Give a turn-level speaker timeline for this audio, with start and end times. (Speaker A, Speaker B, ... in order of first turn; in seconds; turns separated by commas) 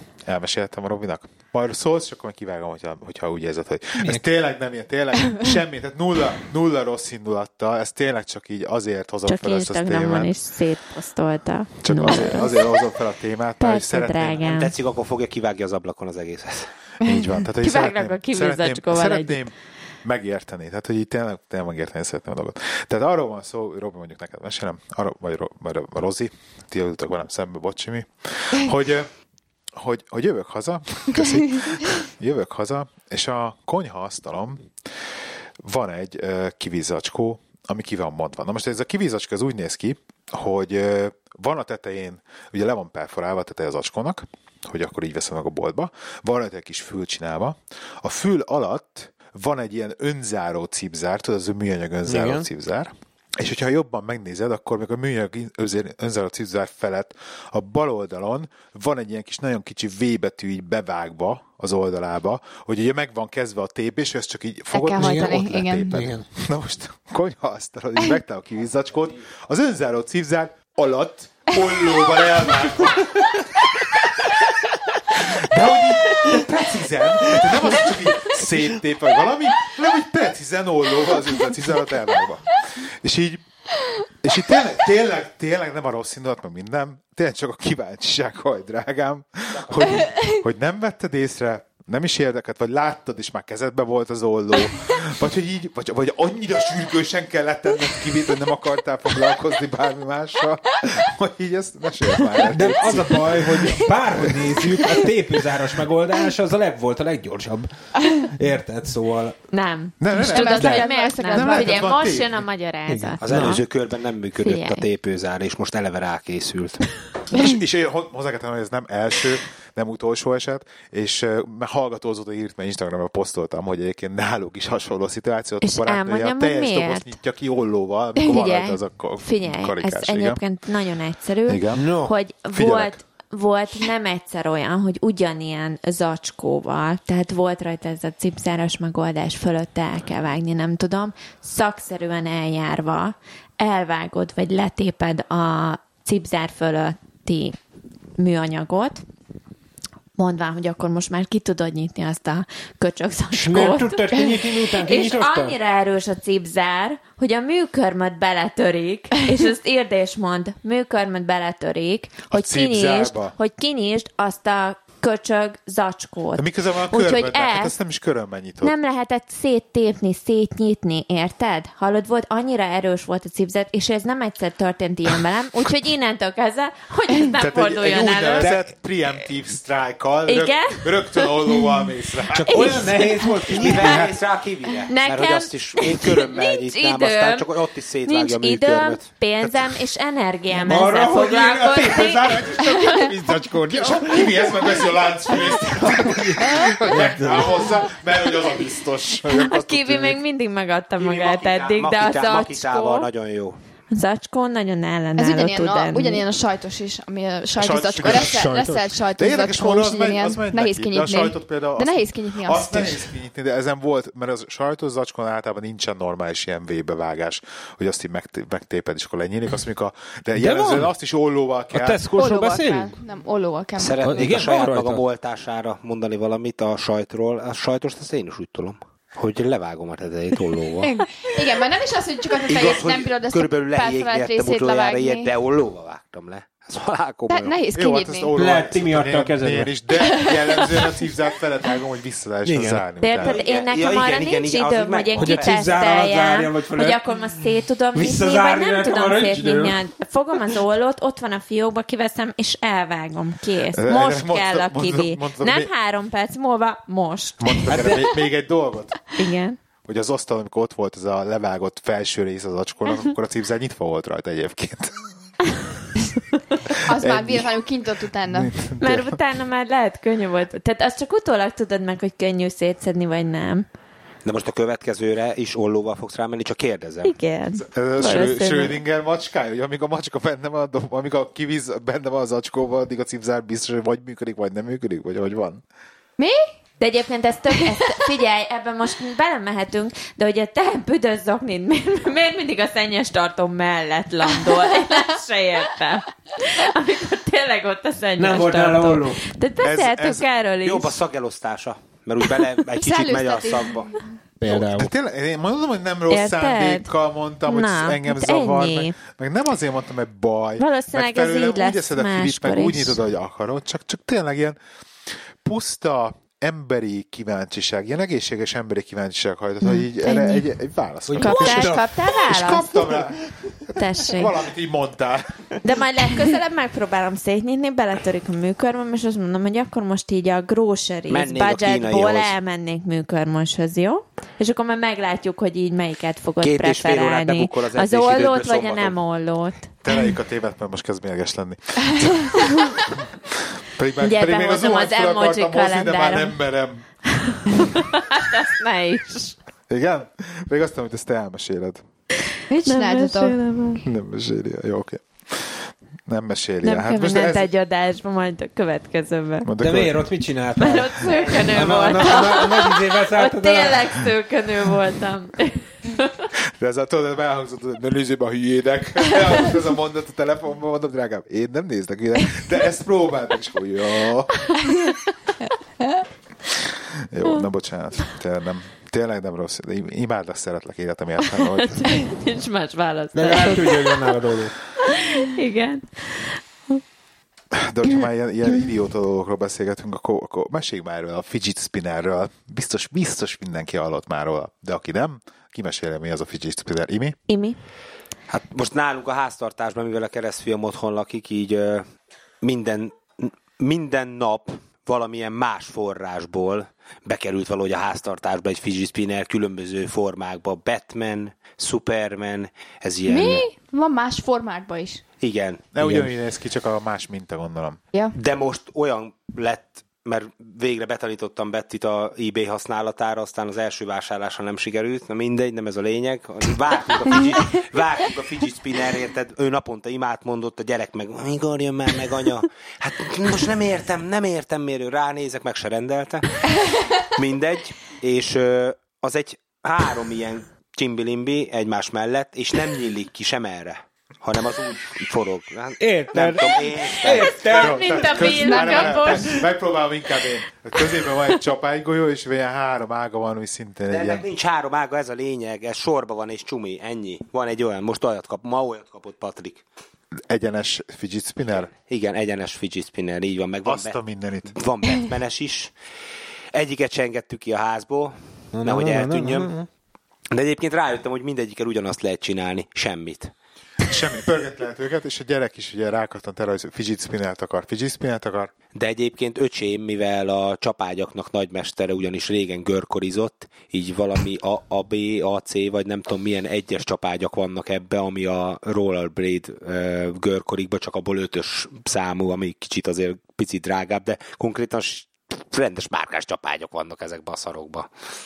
Speaker A: 0.2-10.3, Speaker B: 4.0-4.2, Speaker C: 9.3-12.7, Speaker A: 11.8-14.4, Speaker C: 13.6-14.7, Speaker D: 14.4-16.7, Speaker A: 17.0-19.5, Speaker C: 17.6-19.4, Speaker A: 20.0-29.1, Speaker A: 29.7-34.7, Speaker A: 35.6-73.4, Speaker B: 52.0-52.5, Speaker E: 64.7-66.0, Speaker B: 65.0-66.3, Speaker A: 75.1-83.4, Speaker A: 84.2-104.8, Speaker B: 102.5-109.3, Speaker C: 109.5-113.7, Speaker A: 110.0-112.3, Speaker E: 110.2-111.9, Speaker B: 112.9-113.6, Speaker D: 113.2-116.9, Speaker C: 114.4-114.8, Speaker A: 117.3-130.4, Speaker C: 125.6-127.1, Speaker C: 128.2-147.6, Speaker A: 131.5-131.9, Speaker B: 131.7-132.1, Speaker A: 132.5-133.0, Speaker C: 148.2-149.0, Speaker C: 150.2-167.7, Speaker B: 153.3-155.6, Speaker A: 162.3-163.3, Speaker A: 166.4-168.7, Speaker C: 168.6-178.5, Speaker A: 177.3-182.9, Speaker C: 180.3-181.6, Speaker B: 182.3-184.2, Speaker C: 182.5-183.9, Speaker D: 183.5-189.1, Speaker C: 184.9-187.5, Speaker C: 188.0-193.1, Speaker B: 190.5-194.4, Speaker A: 191.9-192.7, Speaker A: 193.7-200.2, Speaker B: 195.5-197.7, Speaker C: 199.3-203.1, Speaker D: 201.0-203.6, Speaker C: 203.9-206.2, Speaker E: 205.2-213.1, Speaker A: 207.6-208.5, Speaker B: 208.0-208.9, Speaker A: 209.2-222.0, Speaker B: 220.4-220.9, Speaker B: 221.7-222.9, Speaker E: 222.1-224.1, Speaker D: 223.8-230.9, Speaker B: 224.0-225.0, Speaker E: 230.8-235.3, Speaker D: 232.5-237.6, Speaker E: 237.3-238.3, Speaker A: 237.7-243.4, Speaker B: 238.3-239.7, Speaker E: 240.0-240.9, Speaker B: 242.4-242.8, Speaker C: 243.0-258.0, Speaker D: 243.2-246.0, Speaker B: 245.2-247.0, Speaker B: 247.9-249.8, Speaker A: 253.7-255.7, Speaker A: 257.4-259.0, Speaker B: 257.7-258.1, Speaker C: 259.1-259.6, Speaker A: 259.8-265.1, Speaker E: 266.7-268.6, Speaker A: 266.9-267.6, Speaker A: 268.2-269.2, Speaker C: 268.8-273.6, Speaker D: 274.2-277.1, Speaker C: 277.0-278.8, Speaker A: 277.6-285.6, Speaker E: 286.2-286.4, Speaker C: 286.8-301.0, Speaker B: 298.2-299.3, Speaker A: 299.6-300.3, Speaker D: 300.6-303.9, Speaker E: 302.8-303.9, Speaker B: 304.4-304.9, Speaker A: 304.7-314.6, Speaker C: 306.1-306.9, Speaker C: 307.4-308.9, Speaker C: 310.6-313.0, Speaker A: 315.4-323.2, Speaker C: 319.6-320.4, Speaker B: 321.1-321.9, Speaker C: 321.1-322.9, Speaker C: 323.8-324.3, Speaker A: 324.0-325.5, Speaker C: 325.6-339.7, Speaker D: 331.1-332.3, Speaker D: 336.4-339.0, Speaker A: 339.8-346.8, Speaker C: 344.0-346.4, Speaker C: 347.1-349.4, Speaker A: 349.7-351.8, Speaker E: 352.5-353.4, Speaker C: 352.6-353.8, Speaker A: 353.8-357.5, Speaker C: 356.6-359.5, Speaker A: 359.4-360.1, Speaker B: 359.6-364.0, Speaker C: 360.6-366.3, Speaker A: 366.6-374.6, Speaker A: 376.7-382.0, Speaker C: 381.3-384.1, Speaker B: 383.1-384.5, Speaker C: 384.8-386.8, Speaker A: 387.5-397.2, Speaker C: 397.3-397.6, Speaker D: 398.3-401.9, Speaker D: 402.4-413.4, Speaker E: 413.1-415.0, Speaker D: 415.2-415.7, Speaker A: 415.7-417.8, Speaker B: 415.8-416.1, Speaker D: 418.1-436.4, Speaker D: 437.0-447.4, Speaker B: 445.8-447.9, Speaker C: 447.3-449.4, Speaker A: 447.5-454.2, Speaker E: 448.2-449.4, Speaker D: 453.9-459.6, Speaker A: 460.3-461.7, Speaker D: 461.7-463.9, Speaker A: 463.6-464.6, Speaker D: 464.5-465.7, Speaker D: 466.5-469.5, Speaker B: 468.5-469.7, Speaker D: 470.3-473.3, Speaker A: 473.8-478.5, Speaker D: 478.7-497.9